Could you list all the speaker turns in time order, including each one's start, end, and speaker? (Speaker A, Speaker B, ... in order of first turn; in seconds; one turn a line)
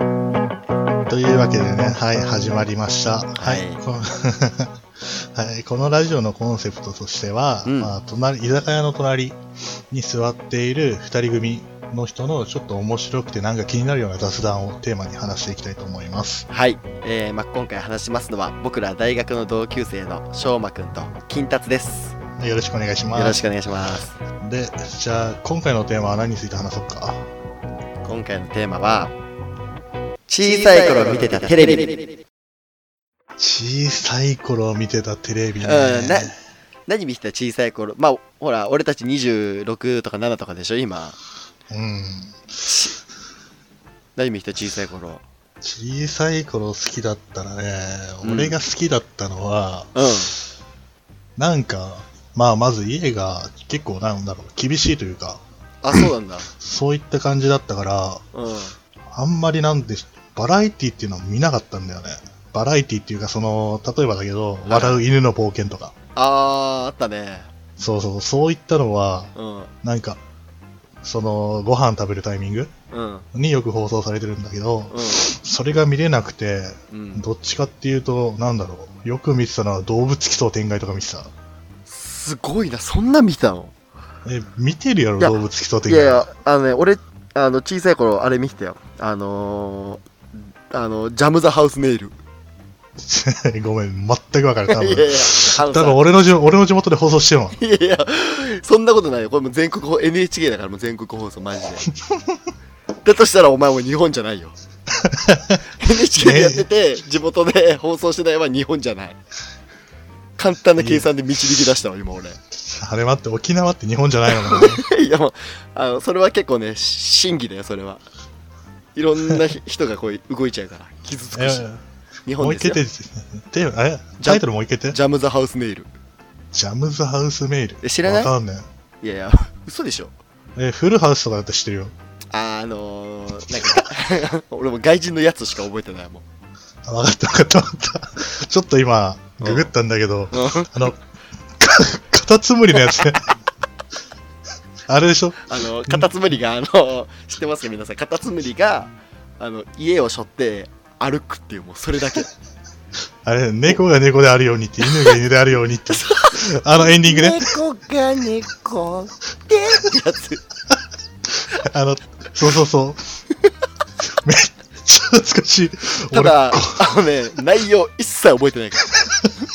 Speaker A: 1.1-9.4
Speaker B: 3.4-3.8
Speaker B: 7.6-7.9
Speaker A: 9.9-16.4
Speaker B: 16.5-22.2
Speaker A: 22.4-23.4
Speaker B: 23.1-24.1
Speaker A: 24.4-27.3
Speaker B: 28.0-29.1
Speaker B: 30.3-32.0
Speaker A: 33.4-36.3
Speaker B: 35.6-36.3
Speaker B: 36.9-41.2
Speaker A: 41.7-42.5
Speaker B: 42.6-43.0
Speaker B: 44.1-45.2
Speaker A: 45.6-50.4
Speaker B: 48.2-48.5
Speaker B: 49.9-50.3
Speaker A: 51.4-55.4
Speaker B: 55.8-56.5
Speaker A: 56.0-58.2
Speaker B: 58.3-58.7
Speaker A: 59.1-65.9
Speaker B: 64.7-65.0
Speaker B: 66.2-67.5
Speaker A: 67.8-69.3
Speaker B: 69.3-69.7
Speaker A: 69.8-70.2
Speaker A: 71.0-72.7
Speaker B: 72.9-73.2
Speaker A: 73.3-81.3
Speaker B: 74.9-75.3
Speaker B: 76.9-77.2
Speaker B: 81.9-83.7
Speaker A: 84.2-86.3
Speaker B: 85.2-90.0
Speaker B: 90.7-92.1
Speaker A: 93.0-97.6
Speaker B: 94.7-96.0
Speaker B: 97.6-101.9
Speaker A: 102.1-102.3
Speaker B: 103.0-104.5
Speaker A: 105.0-105.6
Speaker B: 105.8-109.2
Speaker A: 106.1-106.7
Speaker B: 110.4-112.4
Speaker A: 110.8-111.6
Speaker A: 112.6-114.8
Speaker B: 114.3-118.0
Speaker B: 118.9-121.7
Speaker A: 121.3-121.8
Speaker B: 122.2-122.8
Speaker A: 122.4-125.0
Speaker B: 124.2-125.9
Speaker A: 126.5-128.6
Speaker B: 127.8-128.3
Speaker B: 129.0-130.1
Speaker A: 130.6-131.9
Speaker B: 132.3-136.2
Speaker A: 136.8-141.0
Speaker B: 139.4-139.7
Speaker B: 140.3-140.7
Speaker A: 141.6-143.3
Speaker A: 144.9-146.1
Speaker B: 145.4-152.3
Speaker A: 153.2-157.6
Speaker B: 154.8-155.2
Speaker B: 155.9-160.4
Speaker A: 161.5-163.0
Speaker A: 164.1-166.9
Speaker B: 166.1-168.9